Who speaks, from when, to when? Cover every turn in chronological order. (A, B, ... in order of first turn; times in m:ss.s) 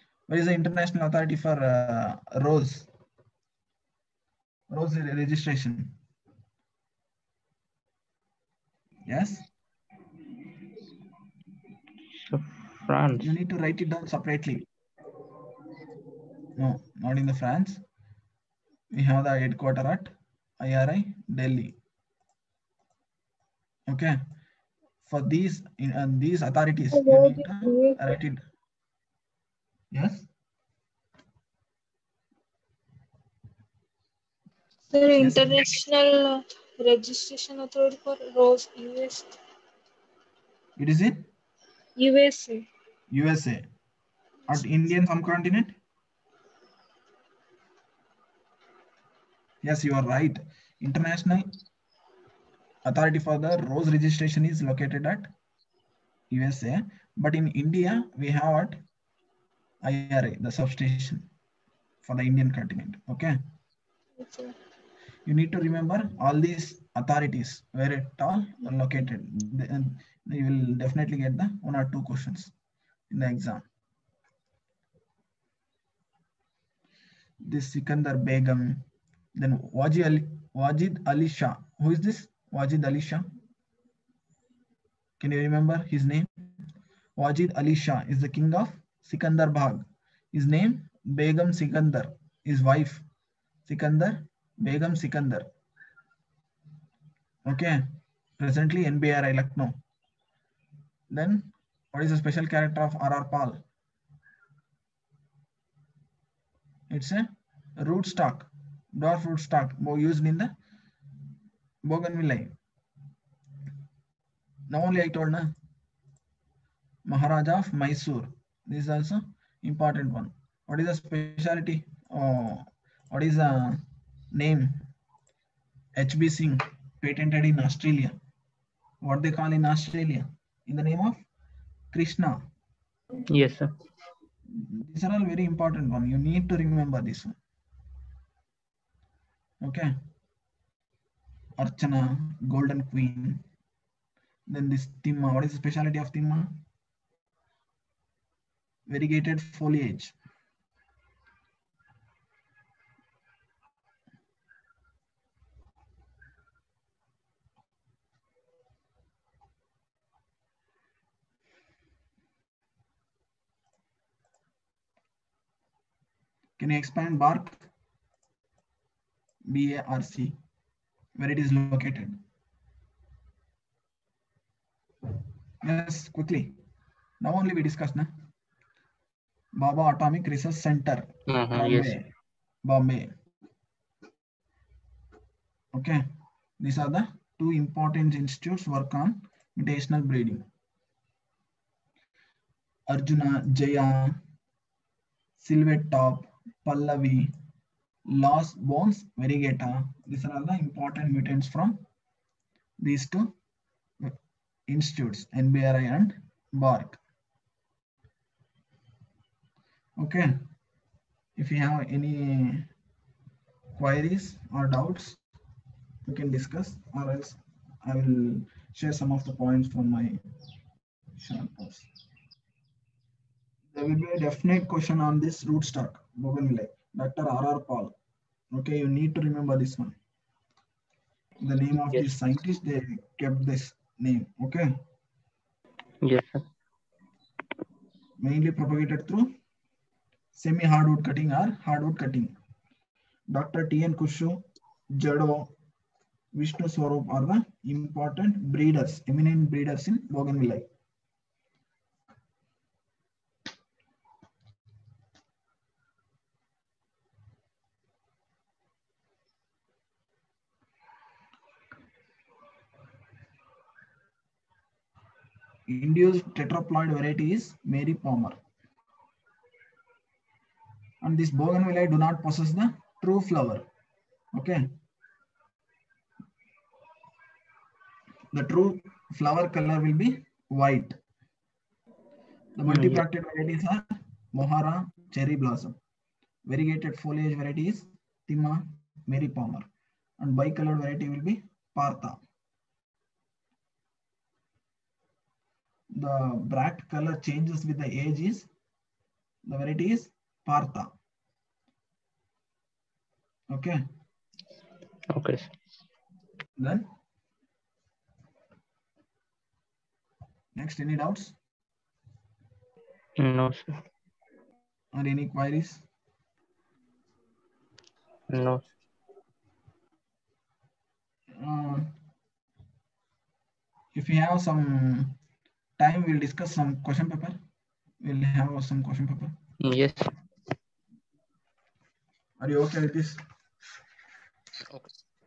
0:00.3-0:02.9 A
0:04.7-0:05.9 A
0:09.1-0:09.5 A
0:12.1-0:13.4 B
0:13.2-0:14.7 A
0:16.6-0:17.8 A
0:18.9-0:21.8 A
0:23.9-0:24.2 A
0:25.1-0:28.4 A
0:26.9-0:28.2 C
0:29.9-0:30.3 A
0:34.9-0:39.4 C
0:35.2-0:35.7 A
0:40.8-0:41.3 A
0:42.0-0:42.6 C
0:43.1-0:43.6 A
0:44.5-0:45.8 A
0:49.6-0:51.6 A
0:52.8-0:55.3 A
0:56.3-0:58.8 A
0:59.8-1:01.2 A
1:02.0-1:03.4 A
1:04.2-1:04.5 C
1:05.3-1:12.5 A
1:13.1-1:13.6 A
1:17.5-1:18.8 A
1:19.4-1:23.3 A
1:25.2-1:26.3 A
1:27.2-1:33.0 A
1:33.7-1:35.5 A
1:37.5-1:37.8 A
1:38.4-1:39.8 A
1:41.1-1:43.6 A
1:46.9-1:50.5 A
1:51.8-1:52.5 A
1:54.7-1:55.5 A
1:57.1-2:03.8 A
2:04.4-2:04.8 A
2:06.0-2:08.2 A
2:09.0-2:11.2 A
2:11.9-2:12.4 A
2:13.3-2:13.7 B
2:14.5-2:17.4 A
2:19.6-2:19.9 A
2:21.6-2:23.4 A
2:24.5-2:26.5 A
2:28.9-2:30.2 A
2:46.6-2:47.7 A
2:49.5-2:50.4 A
2:51.2-2:52.2 A
2:55.6-2:56.6 A
2:57.2-2:58.1 A
2:59.6-3:02.0 A
3:01.3-3:02.0 B
3:02.6-3:03.1 A
3:05.7-3:06.0 A
3:06.6-3:10.4 A
3:12.9-3:14.2 A
3:15.4-3:17.3 A
3:18.1-3:21.8 A
3:22.8-3:23.3 A
3:24.7-3:27.0 A
3:30.0-3:30.3 A
3:31.4-3:32.7 A
3:33.8-3:35.2 A
3:36.1-3:40.2 A
3:41.2-3:41.9 A
3:43.7-3:48.0 A
3:48.5-3:50.0 A
3:51.4-3:54.7 A
3:51.9-3:52.2 B
3:56.0-3:56.4 B
3:58.2-3:59.3 A
4:00.4-4:02.3 A
4:03.3-4:04.4 A
4:05.0-4:05.5 A
4:06.4-4:10.7 A
4:25.7-4:28.4 A
4:31.0-4:33.6 A
4:34.3-4:34.7 A
4:38.3-4:41.0 A
4:42.6-4:45.8 A
4:42.7-4:43.0 B
4:46.5-4:49.7 A
4:50.2-4:52.2 A
4:55.9-4:58.5 A
4:59.5-5:00.9 A
5:03.5-5:03.8 A
5:05.1-5:05.6 B
5:06.6-5:06.9 A
5:10.6-5:11.4 A
5:13.2-5:13.8 B
5:14.9-5:15.8 A
5:18.3-5:18.7 B
5:21.4-5:21.9 A
5:24.0-5:25.2 A
5:25.8-5:27.4 A
5:28.0-5:29.4 A
5:29.6-5:30.1 B
5:32.4-5:33.2 A
5:34.7-5:35.0 B